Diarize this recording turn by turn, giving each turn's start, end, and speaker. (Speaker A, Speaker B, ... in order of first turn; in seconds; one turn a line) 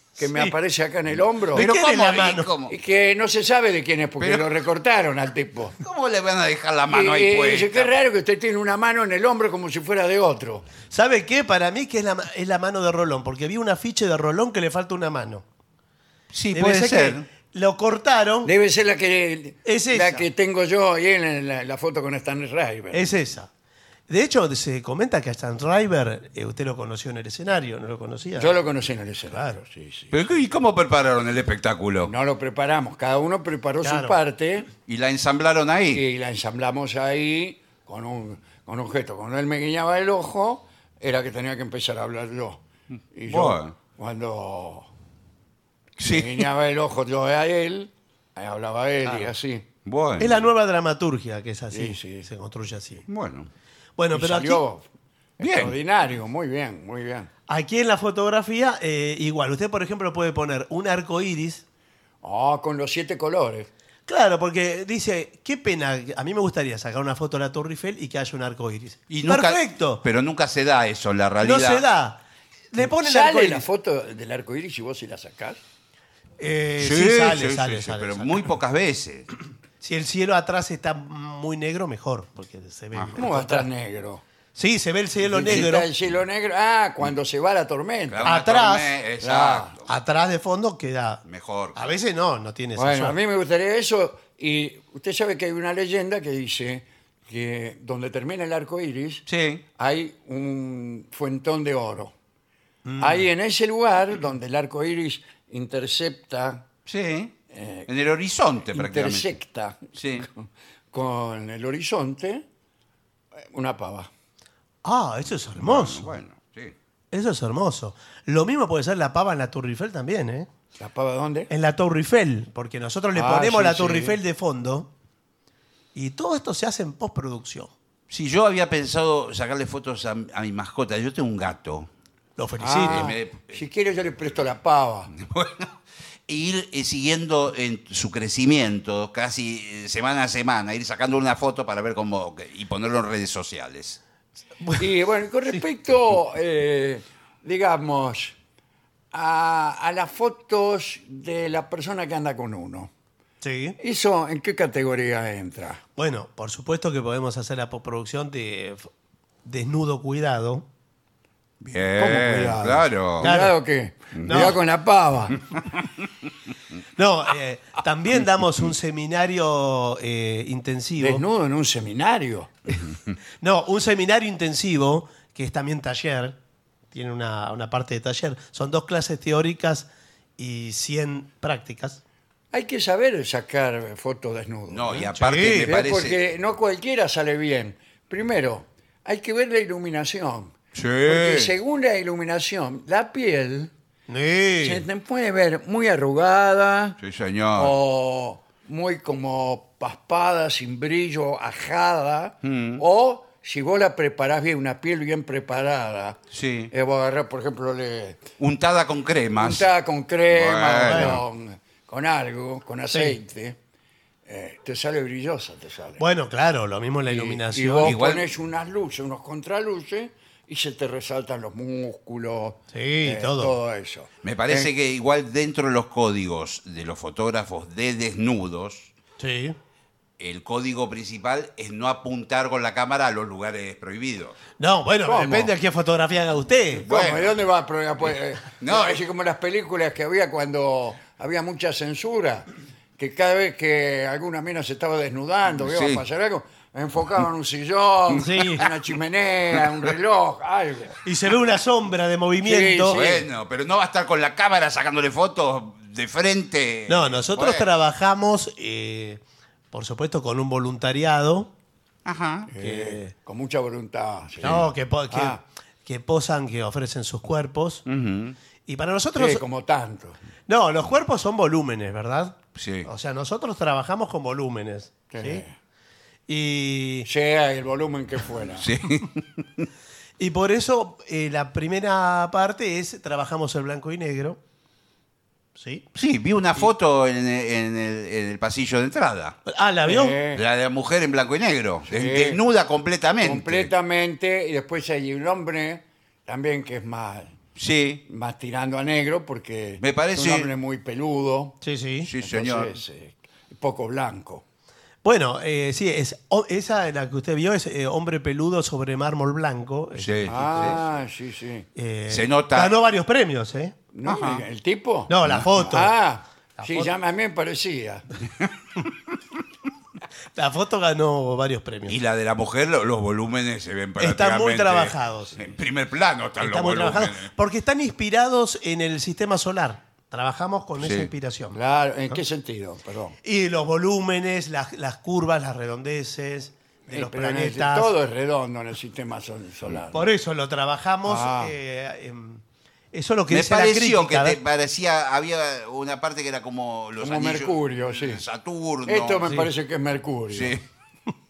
Speaker A: 0.2-0.5
Speaker B: 0.2-1.7
Speaker A: 1.6-2.5
Speaker C: 1.6-2.7
Speaker B: 2.7-5.8
Speaker C: 4.2-4.5
Speaker C: 5.8-7.9
Speaker B: 6.9-10.7
Speaker A: 10.9-15.4
Speaker C: 16.3-17.2
Speaker A: 16.5-18.5
Speaker B: 18.4-23.1
Speaker A: 19.6-20.3
Speaker A: 22.9-23.5
Speaker A: 24.1-28.6
Speaker B: 28.4-30.1
Speaker C: 30.1-32.1
Speaker B: 32.0-34.7
Speaker A: 33.8-34.2
Speaker C: 34.9-36.0
Speaker B: 35.9-42.6
Speaker B: 43.1-44.9
Speaker C: 43.3-43.7
Speaker C: 46.0-46.5
Speaker B: 46.0-49.6
Speaker C: 49.9-50.4
Speaker A: 50.2-53.0
Speaker B: 51.7-52.3
Speaker C: 53.1-53.5
Speaker A: 54.0-54.6
Speaker B: 54.1-54.9
Speaker B: 55.4-57.3
Speaker C: 55.4-55.7
Speaker A: 57.5-61.6
Speaker B: 62.2-63.7
Speaker A: 64.1-70.0
Speaker C: 69.1-71.9
Speaker A: 71.4-73.7
Speaker B: 72.8-75.6
Speaker A: 76.4-78.5
Speaker C: 76.8-79.3
Speaker A: 79.8-83.7
Speaker C: 82.9-83.2
Speaker B: 83.2-84.2
Speaker A: 84.5-85.9
Speaker B: 85.2-88.3
Speaker C: 88.1-89.9
Speaker A: 88.2-89.0
Speaker B: 89.2-89.7
Speaker A: 89.9-91.2
Speaker C: 91.3-91.9
Speaker A: 91.8-93.2
Speaker B: 92.8-99.2
Speaker C: 99.3-99.6
Speaker B: 99.8-102.1
Speaker A: 102.8-103.2
Speaker B: 103.0-106.7
Speaker C: 106.9-107.3
Speaker B: 107.5-107.9
Speaker C: 107.9-109.3
Speaker B: 108.7-112.4
Speaker C: 110.0-110.3
Speaker B: 113.4-114.1
Speaker A: 114.8-116.2
Speaker C: 115.6-116.7
Speaker A: 117.1-120.5
Speaker B: 120.8-121.5
Speaker A: 121.5-124.9
Speaker B: 123.1-124.2
Speaker A: 125.9-127.7
Speaker C: 128.1-131.9
Speaker A: 132.4-133.1
Speaker B: 132.6-135.1
Speaker C: 132.8-133.6
Speaker C: 135.2-135.7
Speaker C: 136.3-144.0
Speaker B: 144.8-148.4
Speaker B: 149.1-152.9
Speaker A: 153.4-153.8
Speaker B: 153.8-155.8
Speaker A: 156.0-158.9
Speaker A: 159.4-160.7
Speaker C: 161.7-163.3
Speaker B: 162.0-165.4
Speaker A: 163.2-163.6
Speaker A: 164.2-164.6
Speaker A: 167.0-171.2
Speaker B: 171.0-172.5
Speaker A: 173.4-176.4
Speaker A: 176.9-182.0
Speaker B: 182.5-190.5
Speaker C: 184.7-186.2
Speaker A: 185.2-185.8
Speaker C: 190.7-191.5
Speaker B: 191.1-193.7
Speaker A: 194.1-194.8
Speaker B: 194.6-197.0
Speaker C: 197.0-197.8
Speaker B: 197.6-206.2
Speaker C: 202.4-202.8
Speaker C: 206.3-206.7
Speaker B: 206.7-208.2
Speaker C: 208.4-209.7
Speaker B: 209.4-213.6
Speaker C: 210.3-211.2
Speaker A: 210.9-211.2
Speaker B: 214.3-216.0
Speaker A: 216.0-217.9
Speaker B: 217.0-224.7
Speaker C: 217.8-218.2
Speaker A: 222.7-223.6
Speaker C: 224.2-228.9
Speaker A: 229.2-229.6
Speaker C: 230.2-234.4
Speaker A: 234.6-236.9
Speaker B: 235.1-235.5
Speaker B: 236.8-242.5
Speaker C: 236.9-237.4
Speaker C: 238.6-239.0
Speaker B: 243.0-251.0
Speaker C: 245.6-246.0
Speaker A: 248.2-248.7
Speaker A: 251.0-253.0
Speaker B: 252.4-253.3
Speaker C: 252.9-257.7
Speaker A: 256.9-261.5
Speaker C: 262.1-262.5
Speaker B: 262.5-265.4
Speaker A: 262.6-263.1
Speaker A: 264.4-267.9
Speaker C: 267.9-268.4
Speaker A: 268.7-269.4
Speaker B: 269.2-270.2
Speaker A: 270.5-275.4
Speaker C: 272.6-272.9
Speaker B: 275.1-275.5
Speaker A: 276.3-277.1
Speaker B: 277.1-278.7
Speaker C: 278.6-279.7
Speaker A: 280.2-284.4
Speaker A: 285.6-285.9
Speaker C: 285.9-289.4
Speaker A: 289.5-290.2
Speaker B: 289.9-290.4
Speaker C: 290.3-293.7
Speaker B: 291.9-292.4
Speaker B: 293.2-297.3
Speaker C: 297.6-298.0
Speaker B: 298.1-301.6
Speaker C: 299.8-300.5
Speaker A: 301.6-302.1
Speaker C: 302.0-302.8
Speaker B: 302.2-304.4
Speaker A: 305.0-310.8
Speaker C: 310.0-310.8
Speaker B: 310.3-311.7
Speaker A: 311.8-313.8
Speaker C: 312.1-312.8
Speaker B: 313.9-318.1
Speaker C: 314.1-314.4
Speaker A: 315.1-315.9
Speaker A: 316.6-316.9
Speaker A: 320.4-322.0
Speaker C: 321.9-327.3
Speaker A: 324.0-325.4
Speaker A: 326.4-331.6
Speaker C: 330.8-331.1
Speaker B: 331.5-333.2
Speaker A: 333.2-337.9
Speaker B: 336.9-340.1
Speaker A: 339.9-342.4
Speaker B: 341.1-341.5
Speaker A: 342.9-344.4
Speaker C: 343.3-349.2
Speaker B: 347.0-348.2
Speaker B: 348.9-350.6
Speaker C: 350.3-350.6